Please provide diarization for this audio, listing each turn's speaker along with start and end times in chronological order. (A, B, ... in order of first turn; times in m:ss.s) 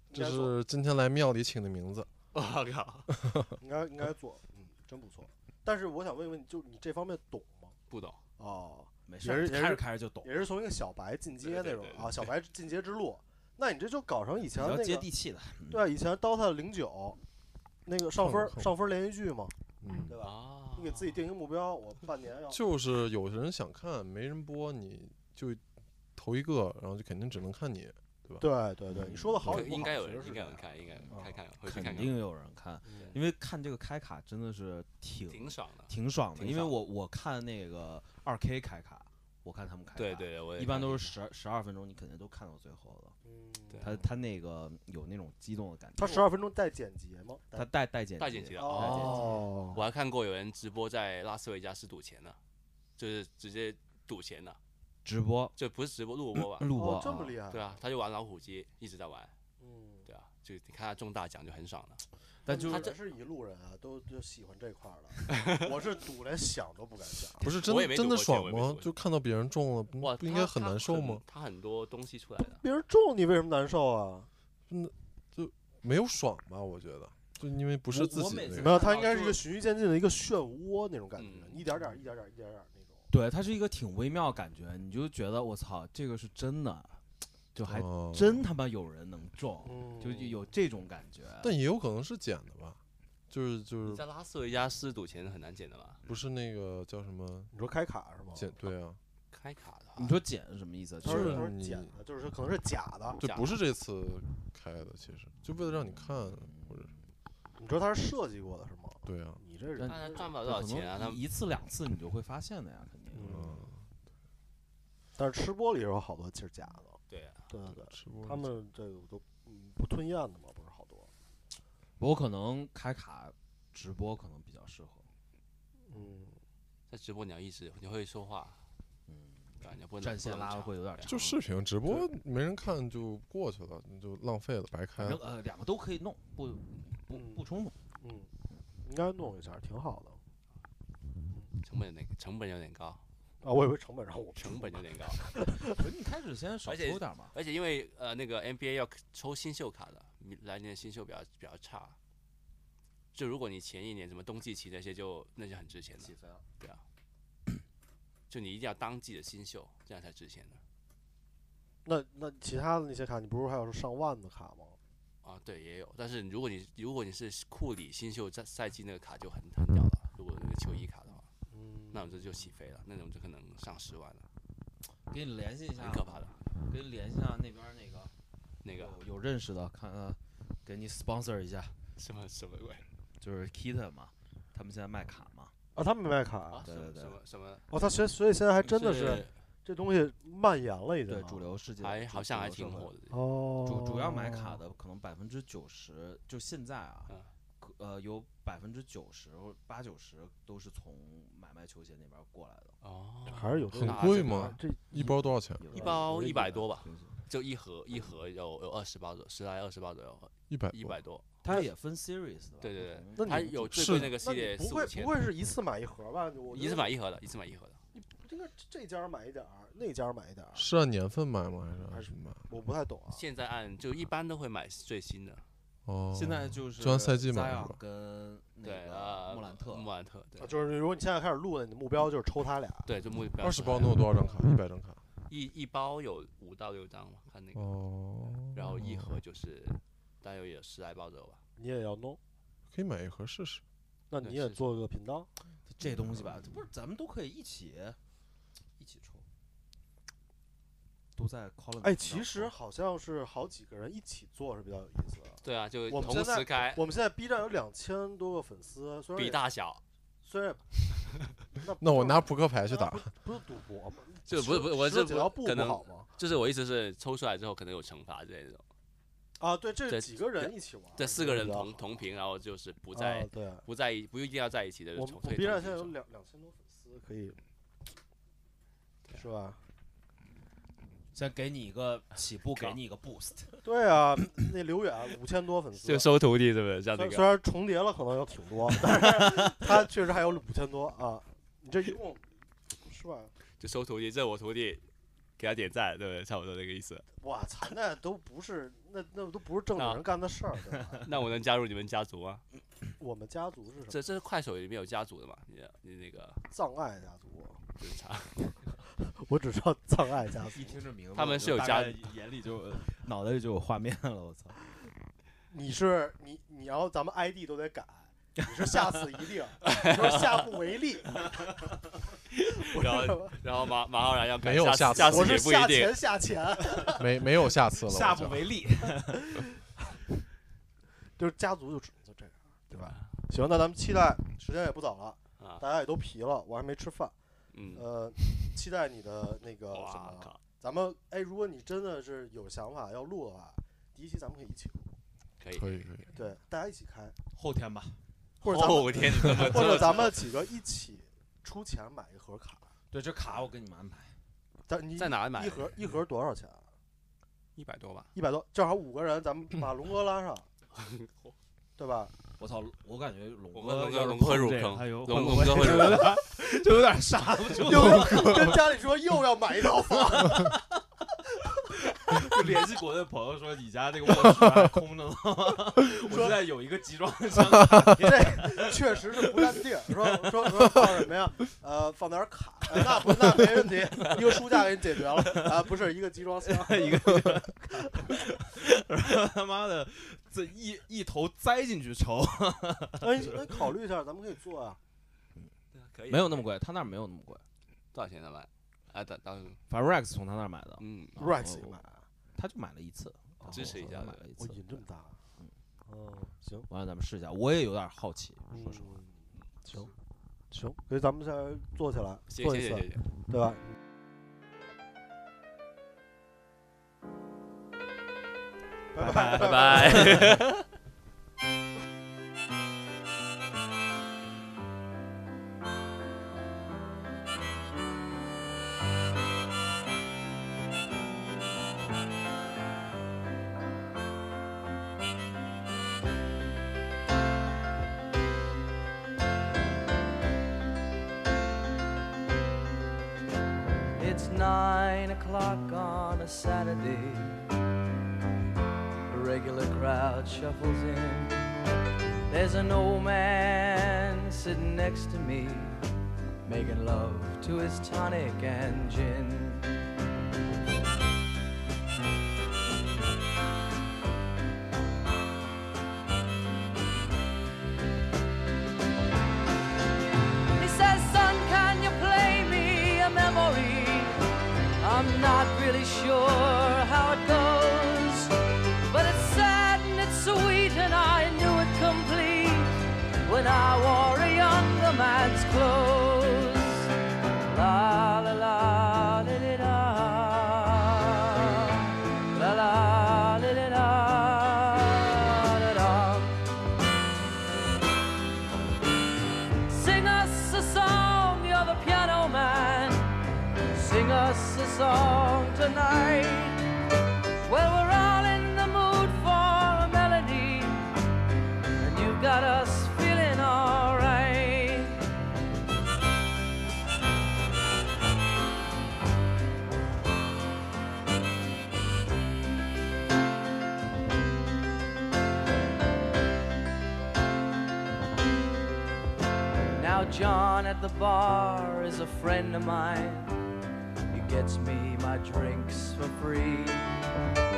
0:00.1-0:00.6 A
0:00.1-0:02.1 B
0:02.3-0:03.1 C
0:03.2-0:03.5 B
0:03.6-0:07.7 A
0:07.9-0:08.2 C
0:08.4-0:15.1 A
0:09.1-0:10.3 D
0:11.4-0:12.3 C
0:14.5-0:15.8 D
0:15.7-0:17.2 A
0:17.9-0:19.6 A
0:18.2-0:18.7 B
0:19.8-0:20.2 B
0:20.1-0:22.6 A
0:20.2-0:21.2 C
0:22.5-0:25.6 B
0:26.2-0:28.4 B
0:28.4-0:31.4 A
0:28.9-0:29.6 D
0:29.5-0:32.2 C
0:31.6-0:43.2 D
0:32.8-0:33.2 A
0:35.3-0:36.8 C
0:40.0-0:41.2 C
0:43.3-0:44.0 A
0:43.7-0:44.0 C
0:43.8-0:46.3 D
0:46.0-0:47.7 A
0:47.5-0:49.5 D
0:48.2-0:52.4 C
0:48.6-0:49.8 A
0:53.0-0:54.6 C
0:55.0-0:55.6 D
0:55.6-0:59.3 C
0:56.4-0:57.4 D
0:56.8-0:57.7 A
0:59.6-1:00.1 A
1:00.1-1:03.0 C
1:02.5-1:07.6 A
1:02.5-1:03.0 D
1:05.3-1:05.6 C
1:07.4-1:11.2 B
1:07.5-1:08.9 C
1:10.0-1:12.6 C
1:12.4-1:14.3 A
1:14.7-1:18.8 B
1:17.9-1:19.4 D
1:18.6-1:23.0 A
1:21.2-1:21.7 C
1:23.1-1:27.0 D
1:27.5-1:31.5 D
1:27.6-1:28.5 B
1:29.6-1:30.5 A
1:31.4-1:32.8 B
1:33.3-1:34.0 B
1:33.8-1:36.0 C
1:36.0-1:37.5 B
1:37.5-1:38.5 A
1:38.4-1:39.0 B
1:39.3-1:40.2 C
1:40.0-1:41.4 D
1:41.0-1:41.9 B
1:41.0-1:43.2 A
1:43.2-1:47.0 B
1:43.2-1:43.6 C
1:45.6-1:47.1 D
1:47.6-1:50.3 A
1:49.0-1:49.4 B
1:49.8-1:53.5 D
1:49.9-1:51.2 C
1:53.1-1:53.7 A
1:53.2-1:53.8 B
1:55.2-1:57.0 A
1:57.1-1:57.4 C
1:57.5-2:01.1 A
1:57.7-1:58.5 B
2:02.0-2:05.1 D
2:05.9-2:06.4 A
2:06.9-2:08.6 C
2:09.1-2:11.4 D
2:09.6-2:11.1 C
2:11.0-2:15.2 B
2:15.0-2:17.8 D
2:17.1-2:17.4 A
2:18.0-2:18.3 A
2:18.8-2:20.2 A
2:21.6-2:23.0 C
2:23.4-2:25.9 A
2:24.4-2:25.2 C
2:25.6-2:27.4 D
2:26.7-2:32.0 C
2:33.1-2:36.8 C
2:36.0-2:36.4 D
2:38.3-2:40.6 C
2:41.8-2:44.8 A
2:45.2-2:51.3 C
2:51.5-2:52.2 A
2:51.9-2:54.2 C
2:55.1-2:58.1 D
2:55.8-2:56.3 C
2:58.6-2:59.0 C
2:58.8-3:01.8 D
3:02.0-3:02.8 C
3:03.2-3:05.5 D
3:05.8-3:06.7 A
3:06.5-3:07.6 C
3:06.7-3:07.2 D
3:07.7-3:11.6 A
3:08.6-3:09.3 C
3:11.1-3:12.9 D
3:11.8-3:13.2 C
3:13.1-3:14.6 A
3:13.6-3:22.8 D
3:22.8-3:24.6 C
3:23.3-3:26.0 A
3:23.7-3:25.7 B
3:25.0-3:27.2 D
3:25.7-3:31.3 C
3:30.5-3:31.0 B
3:31.4-3:33.4 D
3:32.6-3:35.3 C
3:33.2-3:37.0 A
3:33.7-3:34.2 B
3:36.5-3:37.8 C
3:38.0-3:40.7 A
3:40.6-3:42.5 B
3:41.9-3:43.2 A
3:43.1-3:45.4 C
3:45.9-3:47.8 B
3:46.1-3:49.9 D
3:48.6-3:50.5 C
3:50.4-3:52.9 A
3:52.9-3:54.1 C
3:53.4-3:55.0 B
3:55.3-3:57.7 C
3:57.5-3:59.2 B
3:58.5-4:01.4 C
4:01.6-4:02.2 A
4:02.7-4:03.6 B
4:04.1-4:05.3 A
4:04.2-4:04.7 C
4:05.7-4:08.0 D
4:05.9-4:06.4 B
4:08.8-4:09.2 D
4:11.2-4:12.5 D
4:11.8-4:19.4 A
4:15.4-4:16.8 C
4:19.2-4:19.8 C
4:20.2-4:20.6 A
4:21.6-4:26.1 A
4:21.8-4:23.1 B
4:24.3-4:28.6 C
4:29.4-4:32.0 A
4:29.9-4:36.0 C
4:32.9-4:33.6 A
4:35.0-4:37.4 A
4:39.1-4:39.6 A
4:41.1-4:43.6 D
4:42.5-4:42.8 C
4:43.6-4:46.1 A
4:45.8-4:47.3 C
4:46.9-4:52.2 A
4:52.8-4:53.3 A
4:53.6-4:54.8 C
4:55.4-4:57.1 C
4:57.2-5:01.0 A
4:59.8-5:00.0 C
5:01.0-5:02.4 C
5:03.0-5:04.0 A
5:03.9-5:06.4 C
5:06.5-5:07.6 A
5:07.8-5:08.4 C
5:08.5-5:10.8 A
5:10.4-5:14.8 D
5:11.2-5:12.0 C
5:15.5-5:21.3 A
5:19.6-5:20.5 C
5:22.3-5:26.0 C
5:22.6-5:23.4 A
5:24.4-5:25.4 B
5:24.9-5:27.2 A
5:26.9-5:28.5 B
5:27.6-5:29.4 D
5:31.2-5:37.1 A
5:37.5-5:38.3 C
5:37.7-5:44.9 A
5:39.7-5:40.4 C
5:45.4-5:46.0 C
5:45.5-5:46.1 B
5:46.1-5:47.2 A
5:47.3-5:48.0 D
5:48.4-5:52.7 A
5:48.4-5:50.3 C
5:49.1-5:50.0 D
5:52.9-5:54.2 D
5:54.7-5:56.7 A
5:55.0-5:55.8 C
5:57.6-5:58.1 C
5:58.2-6:00.5 A
6:00.7-6:01.4 C
6:01.8-6:02.1 A
6:02.4-6:08.6 D
6:03.5-6:06.2 C
6:07.6-6:10.6 A
6:12.0-6:19.4 D
6:16.1-6:16.4 A
6:18.0-6:27.0 A
6:26.4-6:33.6 D
6:33.0-6:34.8 A
6:35.7-6:36.5 C
6:36.1-6:37.4 D
6:37.9-6:39.6 C
6:39.7-6:41.8 D
6:40.8-6:41.2 C
6:41.2-6:42.0 A
6:42.4-6:44.6 D
6:43.4-6:43.8 A
6:43.5-6:44.2 C
6:44.4-6:45.2 A
6:45.9-6:46.7 A
6:46.7-6:49.0 D
6:48.5-6:49.9 A
6:50.5-6:53.7 A
6:52.3-6:53.1 C
6:58.9-7:00.4 A
6:59.0-7:00.4 D
6:59.1-7:00.6 C
7:24.0-7:27.6 E
7:29.1-7:31.7 E
7:32.3-7:35.9 E
7:36.4-7:39.9 E
7:50.5-7:54.2 E
7:54.8-7:58.3 E
7:58.9-8:06.9 E
8:07.4-8:16.4 E
8:19.7-8:23.2 E
8:23.7-8:26.6 E
8:27.5-8:30.9 E
8:31.8-8:35.0 E
8:49.8-8:53.4 E
8:54.1-8:57.0 E